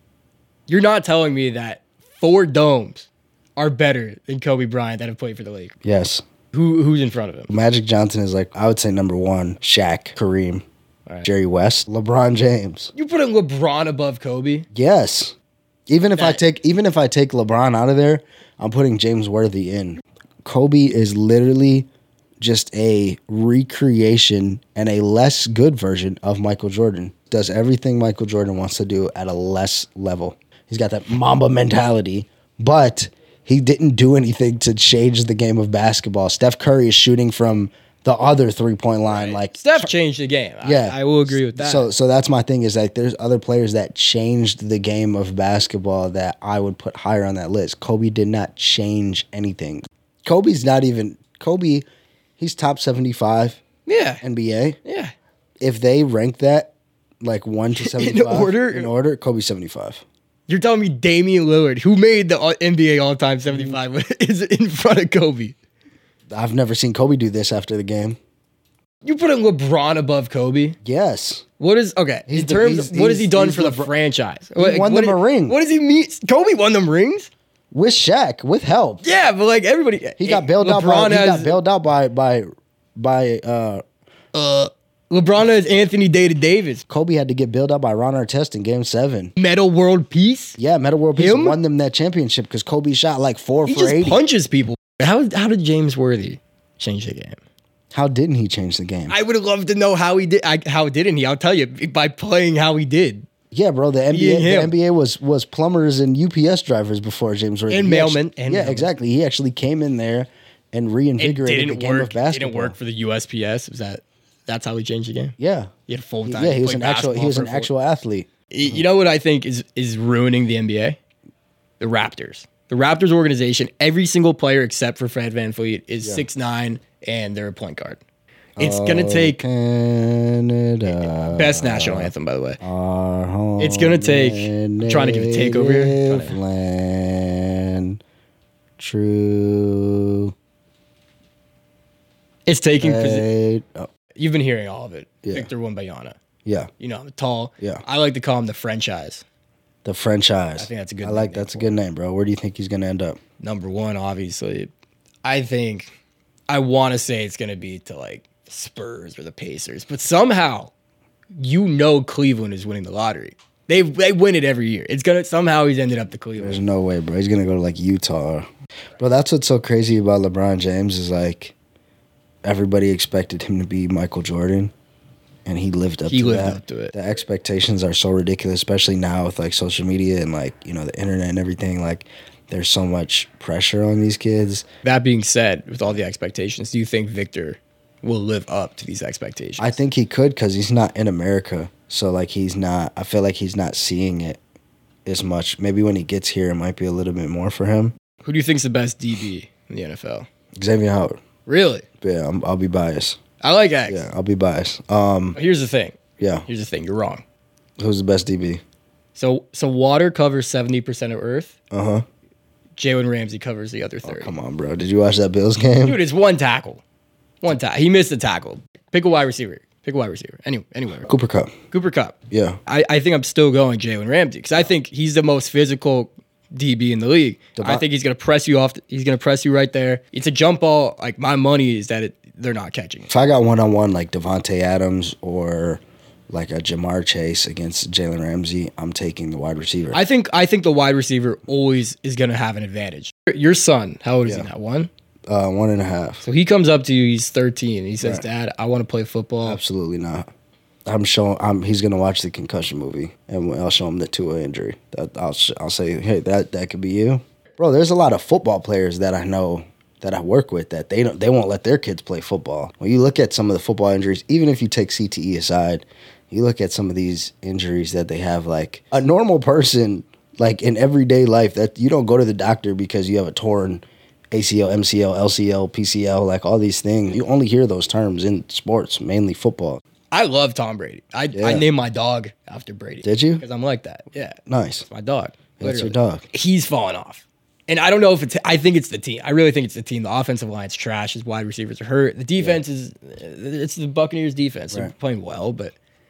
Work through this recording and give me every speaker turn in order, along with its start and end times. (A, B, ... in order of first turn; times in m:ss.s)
0:00.7-0:05.7 A
0:05.8-0:06.2 B
0:06.5-0:07.5 A
0:07.5-0:10.6 B
0:11.2-0:12.9 B
0:12.9-0:14.7 A
0:14.7-0:15.4 B
0:15.9-0:21.9 B
0:16.2-0:16.4 A
0:22.4-0:39.9 B
0:39.1-0:41.9 A
0:40.6-0:51.8 B
0:52.4-0:53.6 B
0:53.8-0:54.2 A
0:54.2-0:54.8 B
0:54.8-0:55.1 A
0:55.6-1:00.0 B
0:57.7-0:58.9 A
1:00.5-1:05.5 A
1:03.5-1:03.8 B
1:06.3-1:08.2 B
1:09.0-1:10.8 A
1:10.8-1:11.4 B
1:11.6-1:17.3 A
1:12.3-1:13.9 B
1:14.6-1:15.6 B
1:17.7-1:19.0 B
1:19.0-1:21.6 A
1:20.2-1:23.8 B
1:24.3-1:26.8 A
1:26.9-1:29.3 B
1:29.4-1:30.6 A
1:30.6-1:34.2 B
1:31.1-1:31.6 A
1:33.6-1:37.4 A
1:37.9-1:39.2 B
1:39.1-1:43.3 A
1:43.5-1:52.8 B
1:44.1-1:44.7 A
1:47.7-1:48.9 A
1:51.2-1:55.3 A
1:55.4-1:55.7 B
1:55.9-1:57.7 A
1:56.2-1:58.8 B
1:58.5-2:01.0 A
2:01.8-2:08.0 A
2:08.6-2:18.0 B
2:08.6-2:09.4 A
2:10.9-2:12.6 A
2:13.6-2:16.4 A
2:18.8-2:20.3 B
2:22.5-2:23.2 A
2:22.8-2:23.9 B
2:24.2-2:26.2 A
2:25.2-2:25.5 B
2:26.8-2:29.2 A
2:29.8-2:33.2 B
2:30.6-2:31.7 A
2:33.4-2:34.7 A
2:35.2-2:35.9 A
2:36.5-2:40.7 A
2:41.4-2:46.6 A
2:46.4-2:48.5 B
2:49.0-2:51.5 B
2:52.4-2:54.7 B
2:55.4-3:04.6 B
2:56.1-2:56.9 A
3:04.8-3:09.8 A
3:09.6-3:14.4 B
3:15.0-3:17.9 B
3:18.2-3:20.2 A
3:20.5-3:21.2 B
3:21.4-3:21.8 A
3:22.0-3:23.2 B
3:23.4-3:24.0 A
3:23.8-3:25.4 B
3:25.3-3:27.2 A
3:26.2-3:26.4 B
3:27.8-3:28.6 B
3:29.1-3:31.5 A
3:31.7-3:32.0 B
3:32.8-3:34.3 A
3:34.0-3:36.0 B
3:35.8-3:36.8 A
3:37.4-3:41.1 A
3:41.0-3:41.5 B
3:41.7-3:42.1 A
3:42.3-3:42.6 B
3:42.7-3:53.1 A
3:47.6-3:47.8 B
3:53.1-4:00.0 B
3:59.9-4:04.9 A
4:05.3-4:06.2 B
4:06.2-4:09.6 A
4:09.4-4:10.3 B
4:10.8-4:39.8 B
4:40.1-4:55.7 A
4:41.3-4:41.6 B
4:43.0-4:43.4 B
4:44.5-4:44.9 B
4:45.6-4:46.2 B
4:52.4-4:52.6 B